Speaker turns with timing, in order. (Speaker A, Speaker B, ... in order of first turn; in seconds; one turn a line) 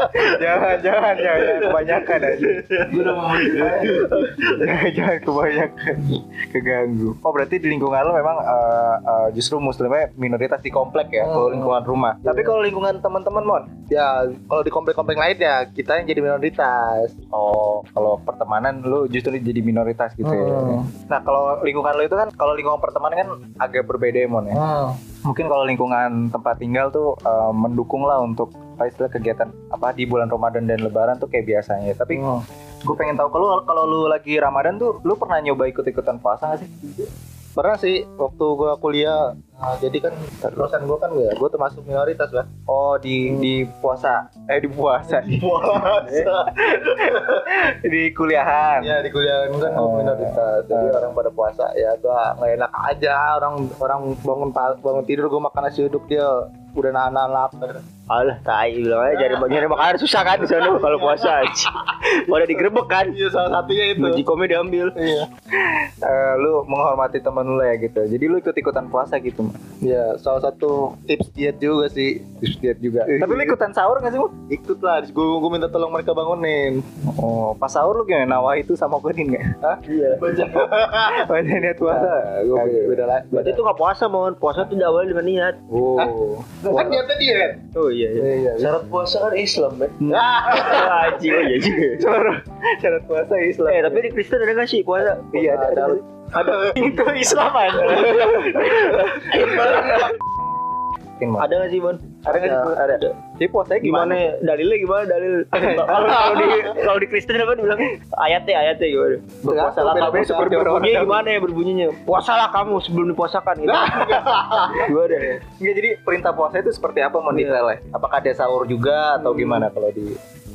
Speaker A: 0.1-13.7
Speaker B: 2.8-4.2
Speaker C: 3.8-4.1
Speaker C: 11.2-12.6
Speaker C: 13.9-17.1
Speaker A: 17.3-24.6
Speaker C: 20.2-20.8
Speaker C: 24.5-25.0
Speaker A: 25.2-37.1
Speaker C: 37.5-42.5
Speaker A: 42.7-45.5
Speaker C: 45.1-47.4
Speaker A: 46.6-49.0
Speaker C: 48.8-57.8
Speaker A: 49.7-51.1
Speaker D: 58.1-63.2
Speaker C: 59.1-61.6
Speaker C: 62.3-64.2
Speaker D: 64.0-65.0
Speaker C: 64.9-65.3
Speaker A: 65.6-69.6
Speaker C: 69.8-72.3
Speaker A: 72.4-74.3
Speaker C: 73.1-73.6
Speaker C: 74.5-76.8
Speaker A: 77.0-79.5
Speaker C: 79.6-83.6
Speaker D: 79.8-80.2
Speaker B: 80.2-80.8
Speaker A: 81.1-83.1
Speaker D: 83.3-85.6
Speaker A: 85.7-86.8
Speaker C: 86.0-87.6
Speaker D: 87.7-88.3
Speaker C: 88.2-88.7
Speaker B: 88.6-90.0
Speaker A: 90.0-90.9
Speaker C: 90.1-91.2
Speaker D: 90.5-92.0
Speaker A: 91.9-94.1
Speaker D: 93.7-95.3
Speaker A: 95.3-100.0
Speaker C: 95.3-96.6
Speaker D: 98.0-98.8
Speaker B: 99.2-100.1
Speaker A: 101.2-101.7
Speaker D: 101.4-103.1
Speaker A: 102.2-104.3
Speaker D: 103.8-115.4
Speaker A: 105.5-106.6
Speaker C: 109.4-110.7
Speaker A: 109.4-111.2
Speaker C: 113.6-114.9
Speaker A: 115.4-120.2
Speaker D: 117.3-117.6